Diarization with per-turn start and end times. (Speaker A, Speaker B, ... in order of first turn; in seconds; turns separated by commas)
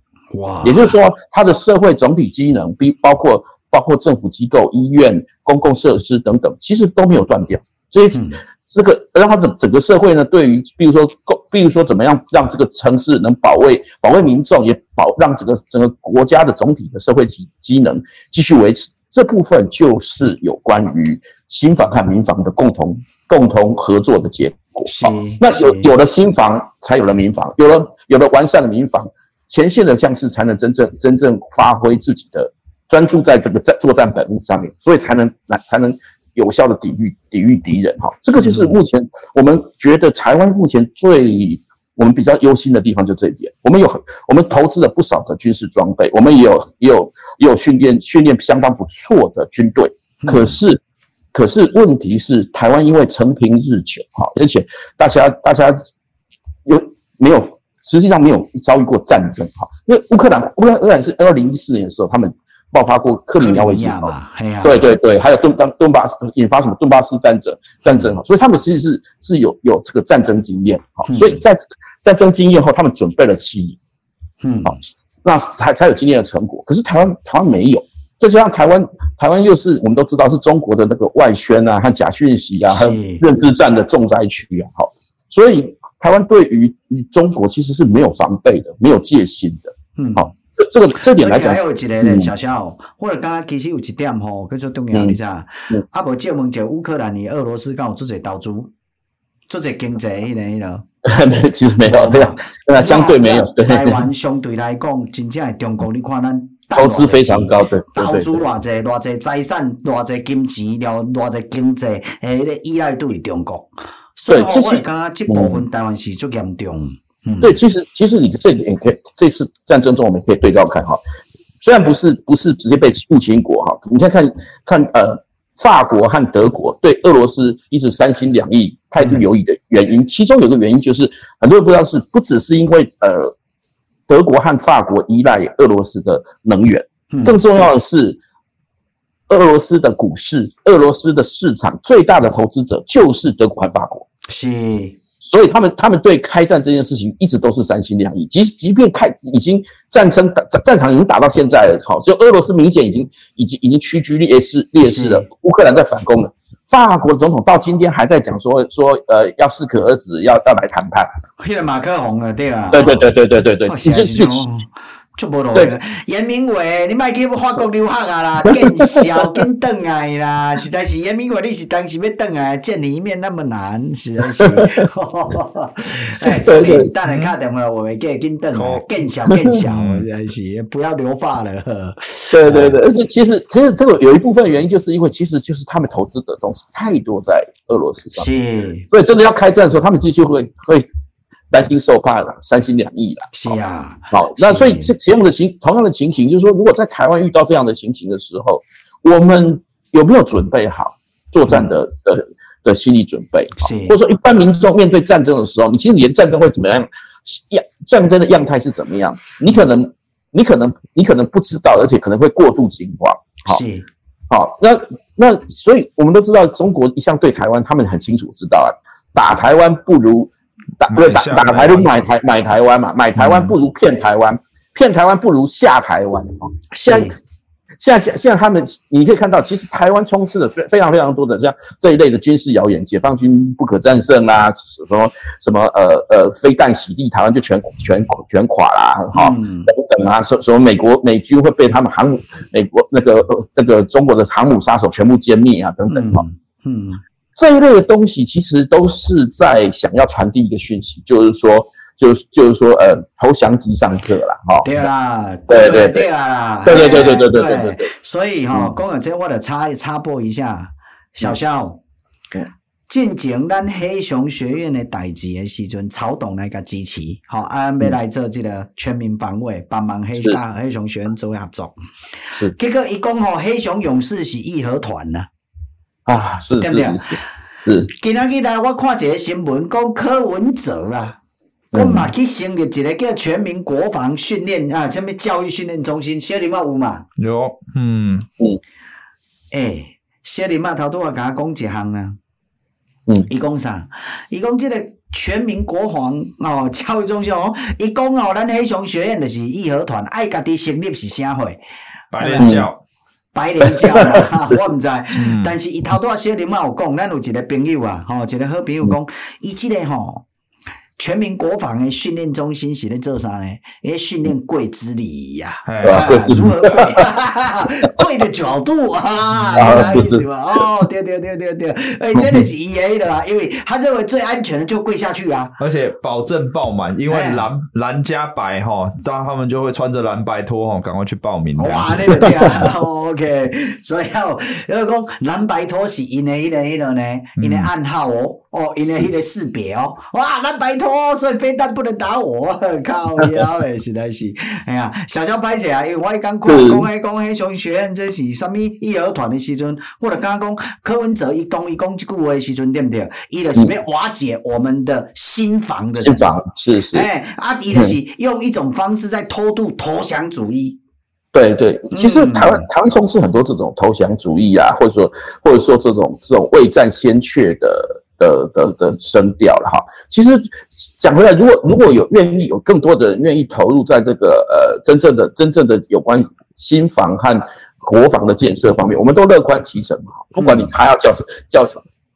Speaker A: 0.3-0.9, Speaker B: 0.6-50.8, Speaker A: 8.1-8.4, Speaker A: 24.8-25.9, Speaker A: 38.4-38.8, Speaker A: 50.2-50.6, Speaker B: 51.3-55.8, Speaker B: 56.6-73.8, Speaker A: 63.4-64.8, Speaker A: 67.9-68.1, Speaker A: 71.1-71.4, Speaker A: 74.4-74.8, Speaker B: 74.6-92.3, Speaker A: 82.7-83.2, Speaker A: 90.0-90.3, Speaker A: 91.0-98.7, Speaker A: 99.5-100.8, Speaker B: 101.0-104.0, Speaker A: 101.8-117.5, Speaker B: 106.7-108.4, Speaker B: 114.3-115.6, Speaker B: 117.4-121.0, Speaker B: 121.6-133.3, Speaker B: 134.1-138.2, Speaker A: 137.1-137.4, Speaker B: 139.3-144.1, Speaker A: 144.3-145.0, Speaker B: 145.2-161.1, Speaker A: 154.8-155.2, Speaker A: 161.4-163.0, Speaker B: 162.7-164.5, Speaker A: 163.7-182.8, Speaker B: 168.5-169.0, Speaker B: 174.3-174.8, Speaker B: 176.2-176.9, Speaker C: 178.5-178.8, Speaker B: 179.3-179.6, Speaker C: 179.7-180.0, Speaker B: 182.3-188.2, Speaker A: 188.1-188.9, Speaker B: 188.9-190.9, Speaker B: 191.5-193.5, Speaker A: 193.3-194.9, Speaker B: 194.1-213.6, Speaker A: 203.6-203.9, Speaker A: 213.4-213.8, Speaker B: 214.3-227.1, Speaker C: 220.9-221.9, Speaker A: 223.2-223.5, Speaker A: 226.7-227.2, Speaker B: 227.8-246.2, Speaker A: 239.1-239.7, Speaker A: 245.9-247.0, Speaker B: 247.3-254.7, Speaker A: 254.6-261.8, Speaker B: 255.5-256.1, Speaker B: 256.6-257.9, Speaker A: 262.9-271.7, Speaker A: 272.5-275.3, Speaker B: 276.1-277.9, Speaker A: 276.6-277.1, Speaker A: 277.9-281.2, Speaker B: 281.7-282.1, Speaker A: 281.7-287.1, Speaker C: 287.2-288.3, Speaker A: 289.5-292.2, Speaker A: 293.3-301.6, Speaker C: 302.1-302.8, Speaker A: 302.2-302.6, Speaker B: 302.4-302.7, Speaker A: 303.3-310.2, Speaker B: 303.8-304.5, Speaker C: 305.2-305.5, Speaker A: 311.0-325.6, Speaker C: 315.6-316.1, Speaker B: 315.8-317.1, Speaker C: 319.4-319.9, Speaker B: 319.6-320.2, Speaker B: 322.1-322.4, Speaker C: 325.6-332.7, Speaker A: 327.1-327.5, Speaker A: 331.6-356.3, Speaker C: 337.4-337.7, Speaker B: 346.4-346.9, Speaker B: 356.0-357.1, Speaker A: 356.9-360.8, Speaker B: 361.3-381.8, Speaker A: 361.9-362.7, Speaker A: 380.4-380.7